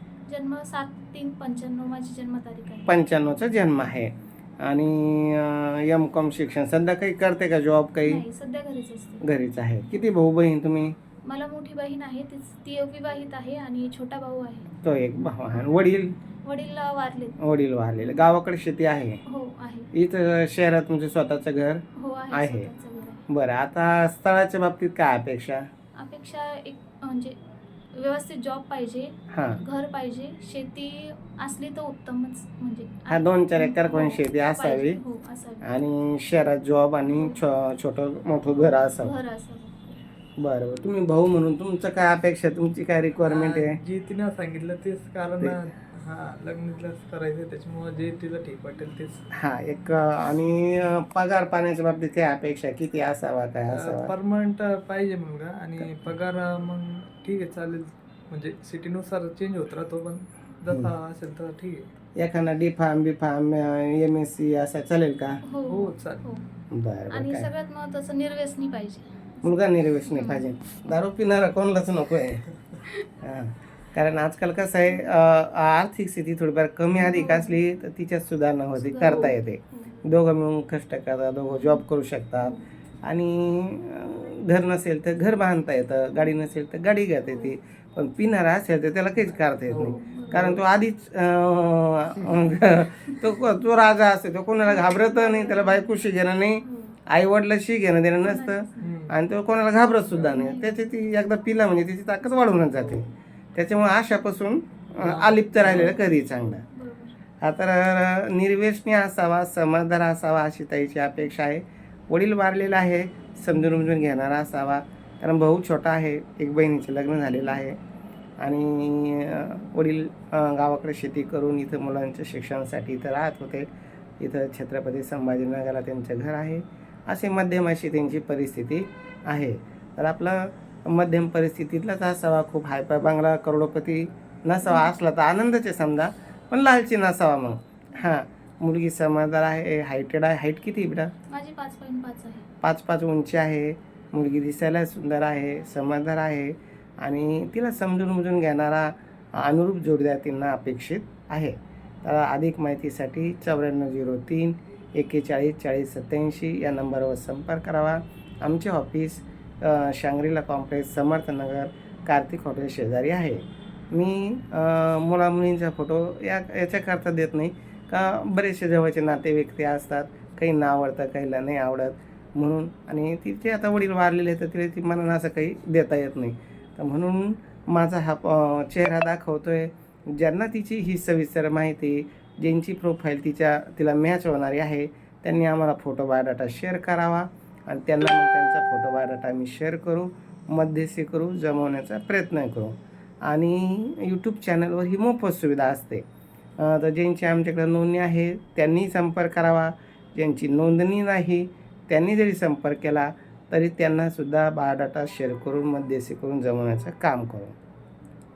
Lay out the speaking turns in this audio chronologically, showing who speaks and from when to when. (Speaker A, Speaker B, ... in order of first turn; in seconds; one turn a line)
Speaker A: 0.3-3.0
Speaker B: 2.9-8.2
Speaker A: 8.1-9.2
Speaker B: 9.2-10.9
Speaker A: 11.2-14.7
Speaker B: 14.8-16.2
Speaker A: 16.4-17.4
Speaker B: 17.4-19.2
Speaker A: 19.3-19.9
Speaker B: 19.9-22.7
Speaker A: 22.0-23.3
Speaker B: 23.3-25.7
Speaker A: 25.9-27.4
Speaker A: 27.9-35.8
Speaker B: 29.3-29.6
Speaker B: 33.1-35.0
Speaker B: 35.6-39.1
Speaker A: 37.0-37.4
Speaker A: 38.5-40.0
Speaker B: 40.4-43.8
Speaker C: 43.2-49.2
Speaker B: 49.3-54.1
Speaker C: 53.7-61.9
Speaker B: 62.2-65.4
Speaker A: 65.5-66.5
Speaker C: 65.7-66.2
Speaker B: 66.7-67.5
Speaker A: 67.1-70.5
Speaker B: 69.4-72.5
Speaker B: 73.2-106.6
Speaker A: 77.0-77.6
Speaker A: 78.8-80.0
Speaker A: 81.5-81.8
Speaker C: 89.7-90.6
Speaker A: 89.8-90.5
Speaker A: 93.0-93.4
Speaker A: 94.6-95.9
Speaker A: 96.6-97.0
Speaker A: 98.2-99.0
Speaker C: 98.8-99.1
Speaker A: 100.1-100.7
Speaker C: 105.0-106.0
Speaker A: 105.7-107.2
Speaker B: 107.4-117.8
Speaker B: 118.4-123.7
Speaker B: 124.2-141.1
Speaker A: 134.7-134.9
Speaker A: 141.3-142.5
Speaker B: 142.6-196.1
Speaker B: 196.6-207.6